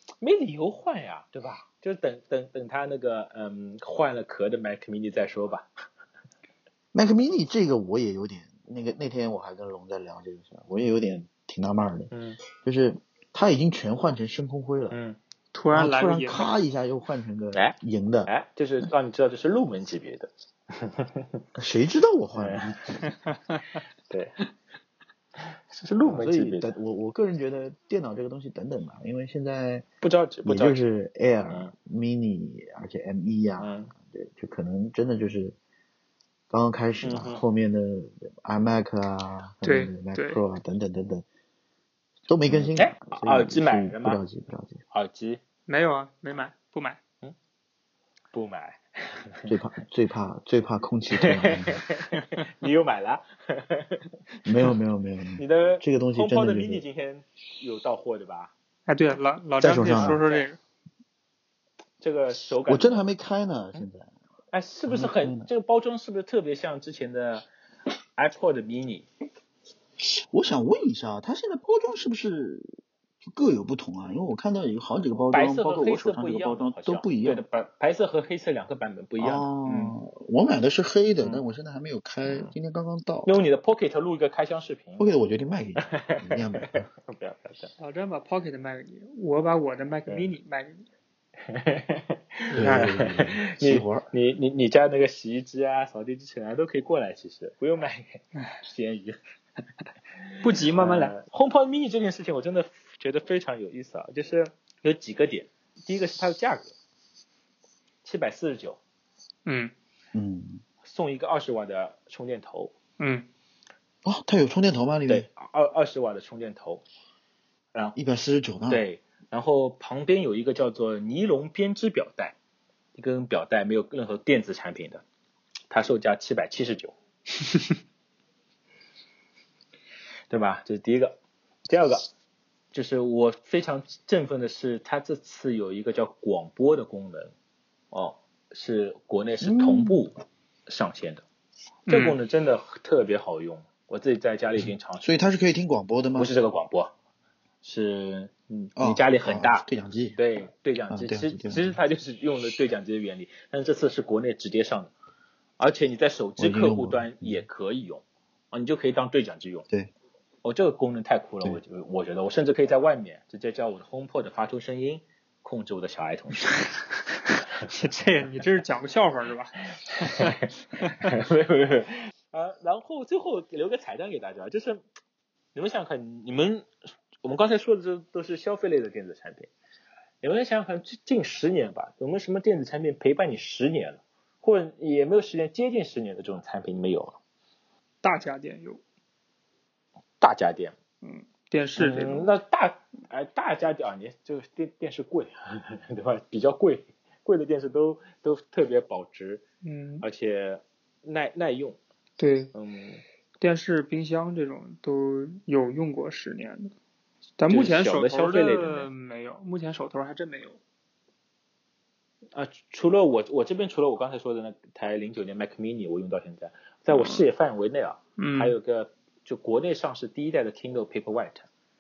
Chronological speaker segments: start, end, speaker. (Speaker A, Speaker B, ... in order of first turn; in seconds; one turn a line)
Speaker A: 0.2-5.7
Speaker B: 6.9-15.0
Speaker A: 12.1-12.4
Speaker A: 14.9-15.2
Speaker C: 15.5-16.5
Speaker B: 15.7-18.3
Speaker A: 18.3-21.4
Speaker B: 21.6-23.0
Speaker A: 22.4-23.0
Speaker C: 23.1-23.6
Speaker A: 24.1-24.4
Speaker A: 25.4-26.7
Speaker B: 26.0-29.9
Speaker A: 30.0-30.8
Speaker B: 30.4-35.6
Speaker A: 31.5-31.7
Speaker A: 33.6-33.9
Speaker B: 36.5-41.2
Speaker A: 37.0-37.4
Speaker C: 39.6-40.4
Speaker B: 42.3-44.8
Speaker A: 42.5-44.2
Speaker A: 44.9-45.4
Speaker C: 45.7-47.0
Speaker A: 48.3-49.5
Speaker B: 49.5-51.8
Speaker A: 51.1-54.1
Speaker B: 54.5-56.9
Speaker A: 55.4-58.5
Speaker C: 58.9-60.6
Speaker B: 59.6-60.2
Speaker A: 59.9-60.5
Speaker A: 62.0-63.0
Speaker B: 62.7-64.1
Speaker A: 64.5-67.5
Speaker B: 64.9-65.5
Speaker A: 68.2-69.1
Speaker B: 70.0-77.4
Speaker A: 75.3-80.0
Speaker B: 79.2-83.3
Speaker A: 82.2-82.5
Speaker A: 83.2-85.1
Speaker B: 85.0-86.9
Speaker A: 85.8-87.7
Speaker C: 87.8-90.9
Speaker A: 90.1-90.3
Speaker A: 91.5-99.2
Speaker B: 92.5-94.1
Speaker C: 92.6-93.0
Speaker C: 100.4-101.2
Speaker A: 100.7-106.8
Speaker A: 108.0-108.8
Speaker C: 109.5-109.7
Speaker B: 110.1-110.6
Speaker A: 110.8-112.7
Speaker C: 113.0-113.3
Speaker B: 114.0-115.3
Speaker A: 115.1-116.8
Speaker B: 118.0-118.8
Speaker A: 118.7-122.4
Speaker A: 123.0-125.0
Speaker A: 125.7-127.0
Speaker A: 130.3-132.1
Speaker A: 132.7-137.3
Speaker A: 137.9-141.2
Speaker B: 139.4-140.0
Speaker C: 141.9-142.2
Speaker A: 141.9-145.1
Speaker B: 145.0-146.3
Speaker A: 146.2-146.9
Speaker A: 147.6-154.9
Speaker B: 148.8-150.2
Speaker B: 150.9-151.8
Speaker A: 155.6-159.7
Speaker B: 156.4-157.5
Speaker A: 160.4-166.6
Speaker C: 167.6-169.7
Speaker A: 169.9-174.8
Speaker A: 175.6-176.7
Speaker A: 177.2-179.5
Speaker A: 180.2-187.2
Speaker C: 188.0-188.8
Speaker A: 190.2-190.8
Speaker C: 191.0-192.3
Speaker A: 191.8-199.4
Speaker C: 199.6-200.1
Speaker A: 200.0-201.8
Speaker C: 202.2-202.5
Speaker A: 202.5-203.0
Speaker C: 203.4-206.7
Speaker C: 207.4-210.6
Speaker A: 207.5-208.9
Speaker A: 212.3-221.5
Speaker C: 216.9-217.2
Speaker C: 218.2-218.6